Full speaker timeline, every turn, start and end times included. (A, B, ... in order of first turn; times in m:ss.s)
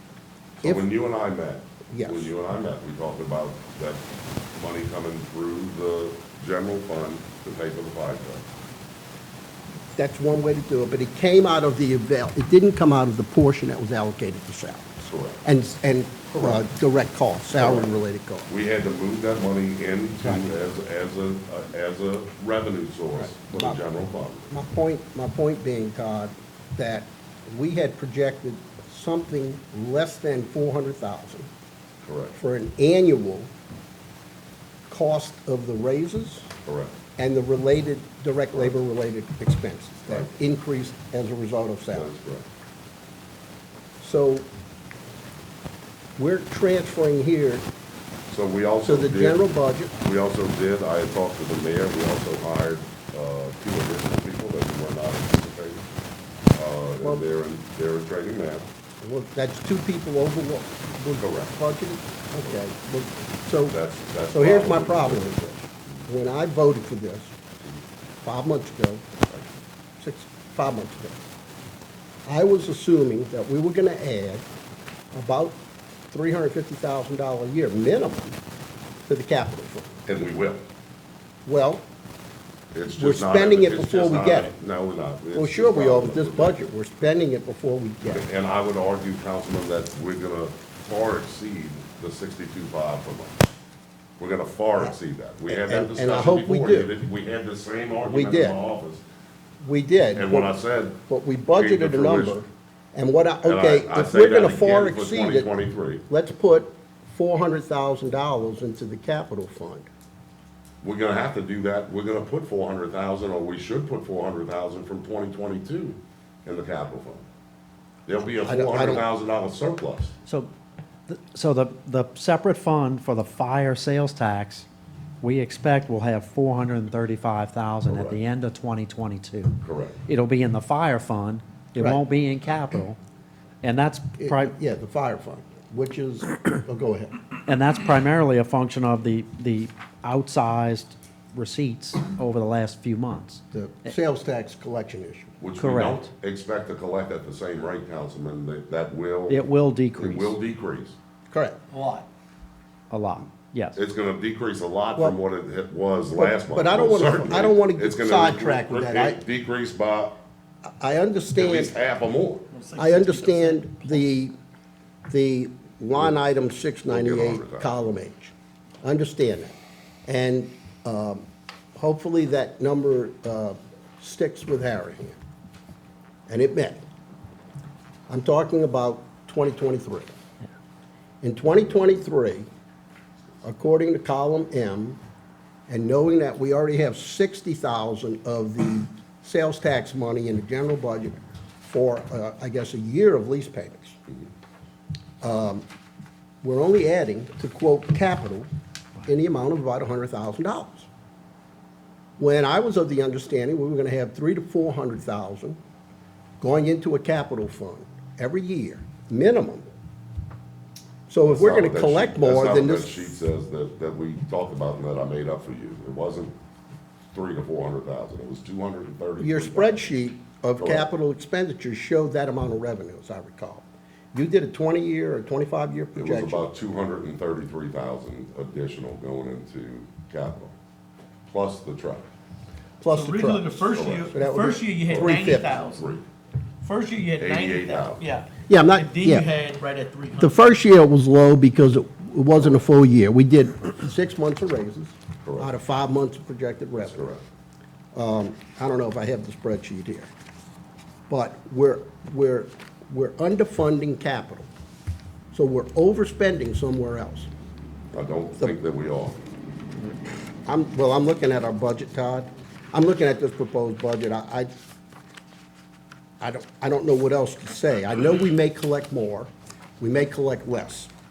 0:00.6-0:08.4 A
0:00.6-0:00.9 B
0:01.9-0:02.3 B
0:10.0-0:18.5 B
0:15.1-0:15.4 A
0:17.6-0:17.9 A
0:18.5-0:24.5 A
0:20.2-0:20.5 B
0:23.2-0:23.8 B
0:24.5-0:31.5 B
0:32.0-0:32.4 A
0:32.4-0:33.5 B
0:34.9-0:36.5 B
0:36.6-0:37.0 A
0:37.2-0:42.1 B
0:41.9-0:42.5 A
0:44.0-0:44.5 B
0:46.2-0:47.7 B
0:48.3-0:49.4 A
0:48.8-0:49.9 B
0:50.0-0:55.8 A
0:56.6-0:58.7 A
0:59.0-1:03.8 B
1:01.2-1:01.6 A
1:03.7-1:06.0 A
1:04.3-1:07.4 B
1:08.2-1:09.1 B
1:10.0-1:11.2 B
1:12.3-1:14.4 B
1:15.1-1:18.4 B
1:19.1-1:20.0 B
1:20.1-1:20.6 A
1:21.5-1:21.9 B
1:22.7-1:26.7 A
1:23.0-1:24.5 B
1:25.4-1:28.3 B
1:28.1-1:33.4 A
1:34.2-1:39.0 A
1:35.5-1:36.9 B
1:38.0-1:38.6 B
1:39.6-1:40.5 B
1:40.2-1:41.0 A
1:41.1-1:45.5 B
1:41.6-1:42.4 A
1:43.4-1:46.0 A
1:46.1-1:49.9 B
1:50.8-1:57.2 A
1:58.1-2:00.1 A
1:58.4-1:59.1 B
2:00.2-2:00.5 C
2:01.1-2:04.7 C
2:05.2-2:13.0 C
2:07.9-2:08.2 A
2:09.6-2:10.0 A
2:13.6-2:14.6 C
2:14.2-2:17.2 B
2:17.5-2:23.4 C
2:23.5-2:25.4 B
2:25.4-2:31.0 A
2:25.6-2:26.1 C
2:29.3-2:30.4 C
2:31.3-2:31.6 B
2:31.7-2:32.1 D
2:32.9-2:33.8 C
2:33.8-2:40.2 A
2:36.2-2:39.2 B
2:40.8-2:41.7 B
2:41.4-2:42.4 A
2:42.5-2:44.0 D
2:42.8-2:44.3 B
2:45.1-2:51.2 B
2:46.9-2:47.7 A
2:51.8-2:55.2 B
2:56.3-2:56.8 B
2:58.1-3:00.1 B
3:01.2-3:02.5 B
3:03.4-3:05.0 B
3:05.7-3:14.0 B
3:15.2-3:15.6 B
3:16.4-3:18.5 B
3:19.1-3:20.9 B
3:22.2-3:25.6 B
3:26.4-3:29.7 B
3:31.1-3:33.2 B
3:31.3-3:36.4 A
3:37.1-3:39.9 A
3:39.2-3:46.5 B
3:40.6-3:40.9 A
3:46.0-3:50.5 A
3:51.3-3:52.1 A
3:52.8-3:55.6 B
3:52.9-3:55.8 D
3:53.6-3:54.2 A
3:54.9-3:56.0 A
3:56.6-4:00.6 D
3:57.1-3:58.0 A
3:58.5-3:59.3 B
4:00.2-4:07.2 B
4:05.2-4:05.5 A
4:06.8-4:07.2 A
4:07.9-4:10.1 B
4:11.1-4:14.5 B
4:15.3-4:17.3 B
4:17.9-4:19.2 A
4:20.5-4:24.5 B
4:26.2-4:30.9 B